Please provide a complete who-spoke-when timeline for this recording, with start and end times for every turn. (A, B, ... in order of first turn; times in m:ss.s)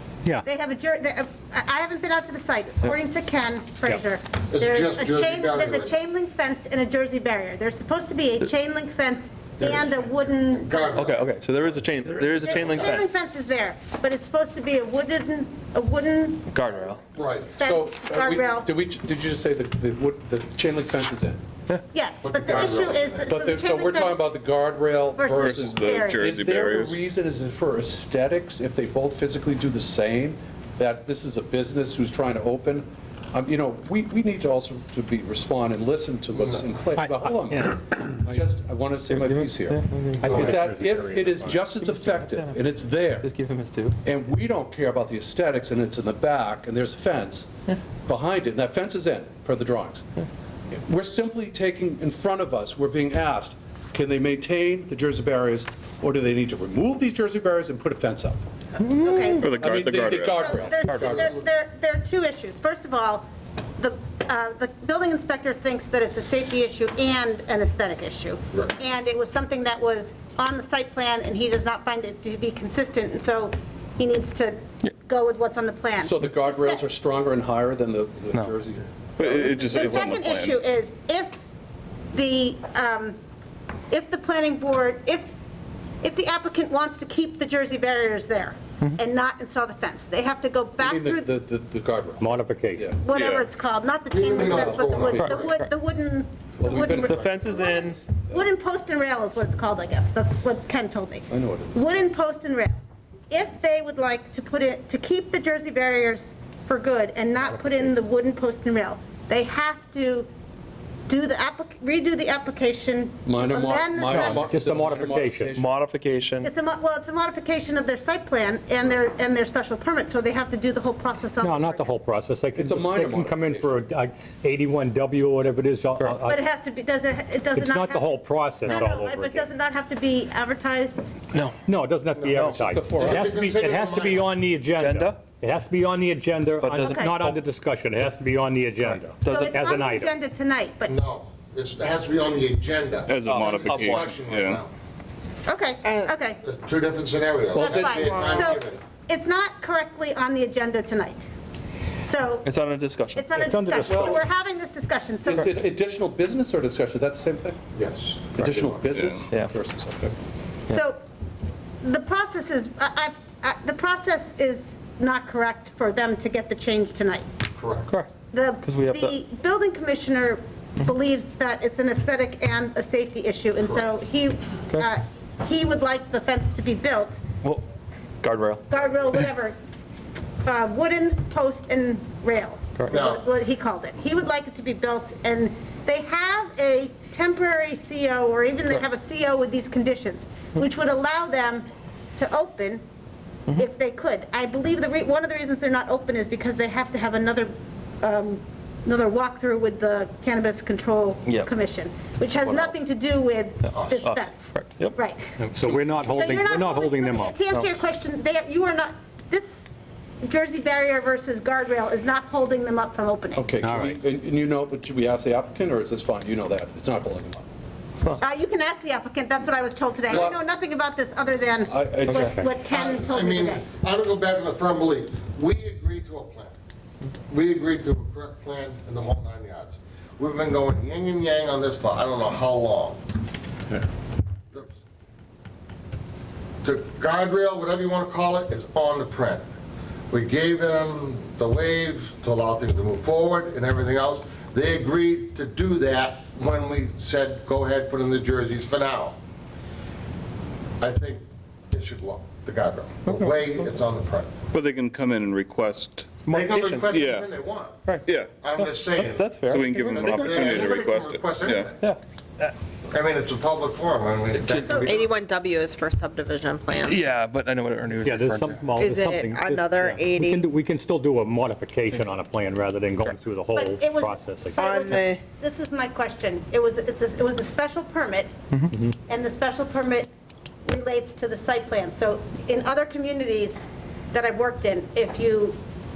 0:00.4-0:11.3 A
0:04.5-0:05.9 B
0:09.6-0:10.0 B
0:10.7-0:11.3 B
0:10.9-0:13.1 C
0:12.3-0:16.5 A
0:16.5-0:17.0 C
0:17.1-0:17.6 B
0:17.6-0:18.7 A
0:17.6-0:21.4 D
0:21.9-0:24.3 A
0:22.2-0:23.3 B
0:23.2-0:43.3 D
0:25.1-0:26.3 A
0:25.3-0:27.0 E
0:37.0-0:37.7 F
0:39.1-0:40.6 C
0:40.2-0:41.4 F
0:40.3-0:40.6 B
0:41.8-0:43.9 C
0:44.0-0:47.5 D
0:48.0-0:50.0 D
0:50.7-0:58.4 D
0:58.8-0:59.6 A
0:59.4-1:00.6 E
0:59.4-1:01.3 D
1:00.3-1:03.3 A
1:00.9-1:01.2 C
1:03.8-1:16.8 A
1:16.0-1:18.9 D
1:19.2-1:20.6 E
1:19.4-1:21.3 A
1:22.1-1:23.2 A
1:23.9-1:25.3 A
1:26.0-1:31.3 A
1:30.8-1:33.0 D
1:32.2-1:32.9 F
1:33.0-1:42.8 A
1:33.1-1:33.4 E
1:34.1-1:35.4 B
1:35.1-1:35.5 D
1:35.2-1:35.6 C
1:36.6-1:38.4 D
1:36.8-1:38.0 C
1:41.3-1:42.1 D
1:43.3-1:50.3 A
1:51.1-1:54.5 A
1:53.2-1:55.7 D
1:54.1-1:55.5 F
1:55.5-1:56.5 C
1:56.4-2:01.9 A
2:01.4-2:06.4 F
2:02.5-2:03.7 D
2:06.2-2:11.1 A
2:07.5-2:09.4 F
2:11.7-2:20.1 F
2:12.2-2:14.3 B
2:12.2-2:12.6 C
2:12.6-2:13.3 D
2:14.8-2:15.2 C
2:16.6-2:17.4 C
2:16.8-2:17.2 A
2:19.2-2:19.6 C
2:19.2-2:20.9 A
2:20.8-2:24.7 B
2:23.1-2:24.6 E
2:23.2-2:24.2 C
2:25.4-2:26.4 A
2:26.4-2:28.8 B
2:27.5-2:28.5 D
2:27.5-2:31.3 A
2:32.0-2:32.5 A
2:32.4-2:34.1 C
2:33.1-2:35.5 A
2:33.4-2:34.2 F
2:35.2-2:37.6 D
2:37.8-2:38.8 B
2:38.3-2:40.1 D
2:38.9-2:39.2 E
2:40.7-2:41.0 A
2:41.8-2:47.3 A
2:47.6-2:47.9 B
2:48.3-2:57.2 A
2:48.6-2:49.1 C
2:58.2-2:58.6 C
2:58.7-2:59.8 A
3:00.4-3:12.8 A
3:02.9-3:03.2 B
3:13.5-3:25.3 A
3:22.4-3:22.7 C
3:23.6-3:24.9 C
3:25.4-3:27.4 F
3:26.0-3:29.7 A
3:30.2-3:33.4 A
3:33.3-3:37.4 D
3:33.6-3:34.0 F
3:38.2-3:43.7 A
3:40.1-3:40.4 D
3:41.7-3:42.4 D
3:42.7-3:46.5 B
3:47.3-3:53.0 B
3:56.6-3:59.4 B
4:00.1-4:09.2 B
4:10.8-4:14.4 B
4:13.0-4:13.5 C
4:14.5-4:16.2 E
4:16.2-4:17.2 C
4:16.3-4:17.8 B
4:16.9-4:17.3 E
4:18.0-4:18.4 E
4:18.3-4:21.8 B
4:18.6-4:20.8 C
4:19.5-4:21.7 E
4:21.8-4:22.5 C
4:22.9-4:25.2 B
4:24.4-4:25.1 C
4:24.6-4:25.0 A
4:24.9-4:26.9 G
4:26.7-4:28.8 C
4:28.0-4:35.0 F
4:28.8-4:30.4 G
4:33.5-4:38.3 A
4:34.6-4:35.2 G
4:39.1-4:40.1 A
4:40.6-4:45.6 A